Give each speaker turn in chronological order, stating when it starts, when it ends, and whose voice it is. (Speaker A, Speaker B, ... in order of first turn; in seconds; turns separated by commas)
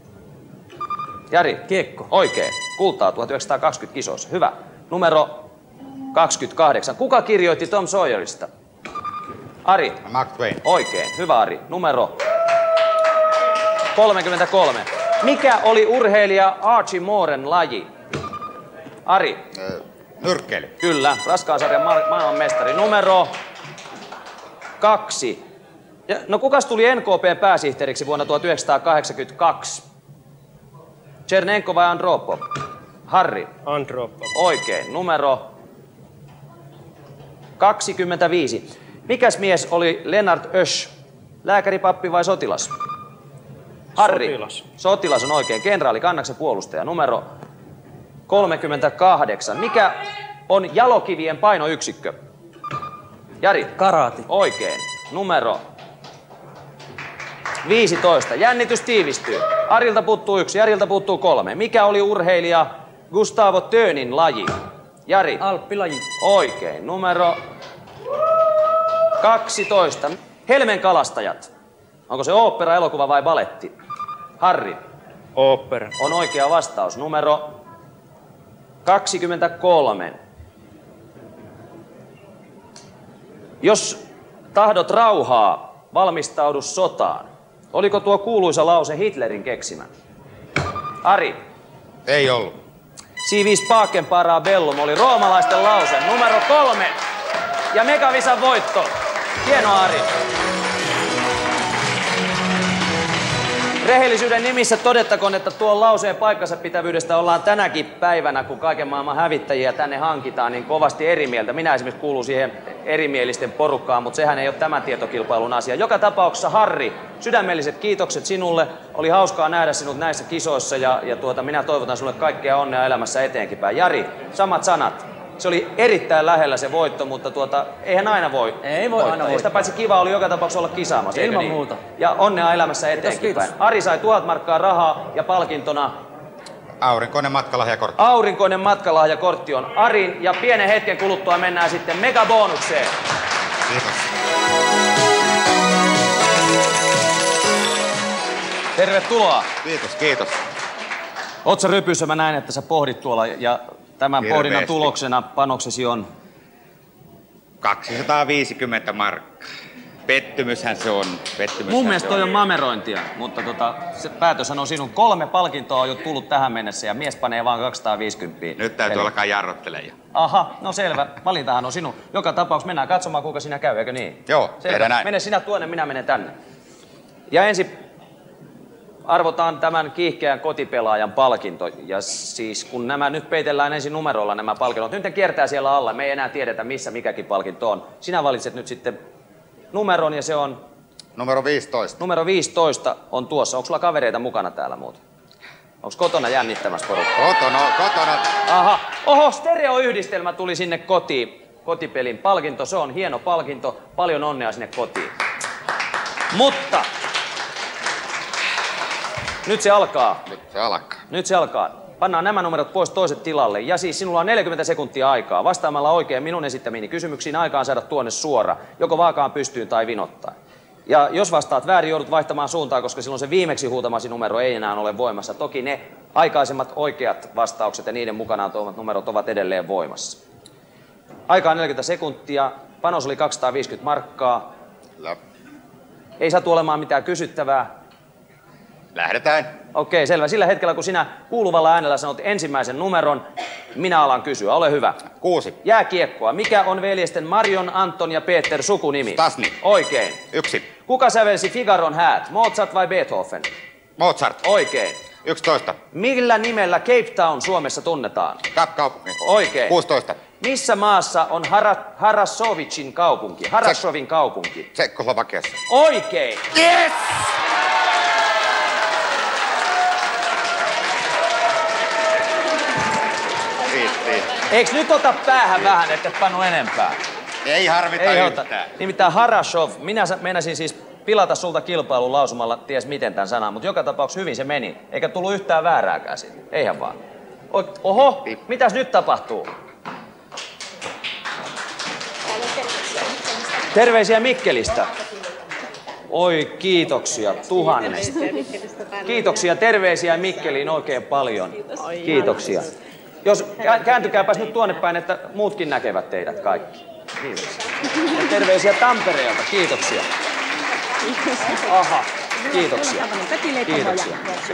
Speaker A: 1.3-5.5, Speaker B: 1.7-2.1, Speaker A: 6.1-8.5, Speaker A: 9.7-10.0, Speaker C: 10.1-10.6, Speaker A: 10.6-12.2, Speaker A: 13.9-17.9, Speaker A: 19.1-19.4, Speaker C: 19.6-20.7, Speaker A: 20.8-23.3, Speaker A: 24.8-25.4, Speaker A: 26.1-29.8, Speaker A: 31.3-32.4, Speaker A: 33.1-33.5, Speaker D: 33.6-34.3, Speaker A: 34.3-35.5, Speaker A: 37.6-40.9, Speaker A: 41.4-42.7, Speaker A: 44.0-47.2, Speaker D: 44.0-44.6, Speaker A: 48.3-52.2, Speaker A: 53.4-55.6, Speaker B: 53.8-54.2, Speaker A: 57.6-64.5, Speaker A: 65.1-65.4, Speaker B: 65.4-66.0, Speaker A: 66.2-67.4, Speaker A: 69.2-71.5, Speaker A: 72.1-73.7, Speaker A: 74.4-74.8, Speaker D: 75.4-75.9, Speaker A: 76.0-77.6, Speaker A: 78.8-80.2, Speaker A: 83.6-84.0, Speaker A: 84.5-89.9, Speaker A: 91.0-91.4, Speaker C: 92.1-92.6, Speaker A: 93.2-97.0, Speaker A: 97.7-98.9, Speaker A: 99.4-100.1, Speaker A: 103.8-135.9, Speaker B: 128.6-129.6, Speaker B: 131.1-131.8, Speaker B: 133.0-133.5, Speaker C: 136.8-138.0, Speaker A: 138.0-142.9, Speaker C: 143.7-144.1, Speaker A: 148.8-149.5, Speaker C: 149.6-150.4, Speaker A: 151.4-156.1, Speaker C: 154.2-154.9, Speaker C: 157.6-159.5, Speaker C: 160.1-162.3, Speaker A: 161.7-169.1, Speaker C: 168.6-169.9, Speaker A: 170.1-176.3, Speaker C: 174.3-175.1, Speaker A: 177.3-177.7, Speaker A: 179.1-189.0, Speaker A: 189.7-190.6, Speaker C: 191.2-192.0, Speaker A: 192.0-195.0, Speaker A: 195.8-197.2, Speaker C: 197.2-198.3, Speaker A: 198.5-205.1, Speaker A: 206.3-206.9, Speaker A: 209.4-210.3, Speaker C: 210.3-211.0, Speaker A: 211.1-220.3, Speaker A: 220.9-230.2, Speaker A: 231.3-234.5, Speaker A: 236.2-237.7, Speaker C: 238.9-239.5, Speaker A: 239.7-243.2, Speaker A: 243.7-245.1, Speaker C: 245.2-245.6, Speaker A: 245.6-250.2, Speaker C: 249.2-249.6, Speaker C: 250.3-250.7, Speaker A: 250.8-253.5, Speaker C: 254.0-254.4, Speaker A: 254.4-255.0, Speaker C: 255.2-255.8, Speaker A: 255.9-258.4, Speaker C: 258.5-260.2, Speaker A: 259.2-259.8, Speaker A: 260.4-264.7, Speaker C: 264.8-265.6, Speaker A: 265.7-266.5, Speaker C: 266.6-267.2, Speaker C: 273.7-274.4, Speaker A: 274.5-277.0, Speaker C: 277.4-278.7, Speaker A: 278.0-287.0, Speaker A: 287.5-289.5, Speaker A: 293.7-294.9, Speaker A: 296.1-298.4, Speaker A: 299.0-302.7, Speaker A: 303.2-310.1, Speaker A: 311.6-314.3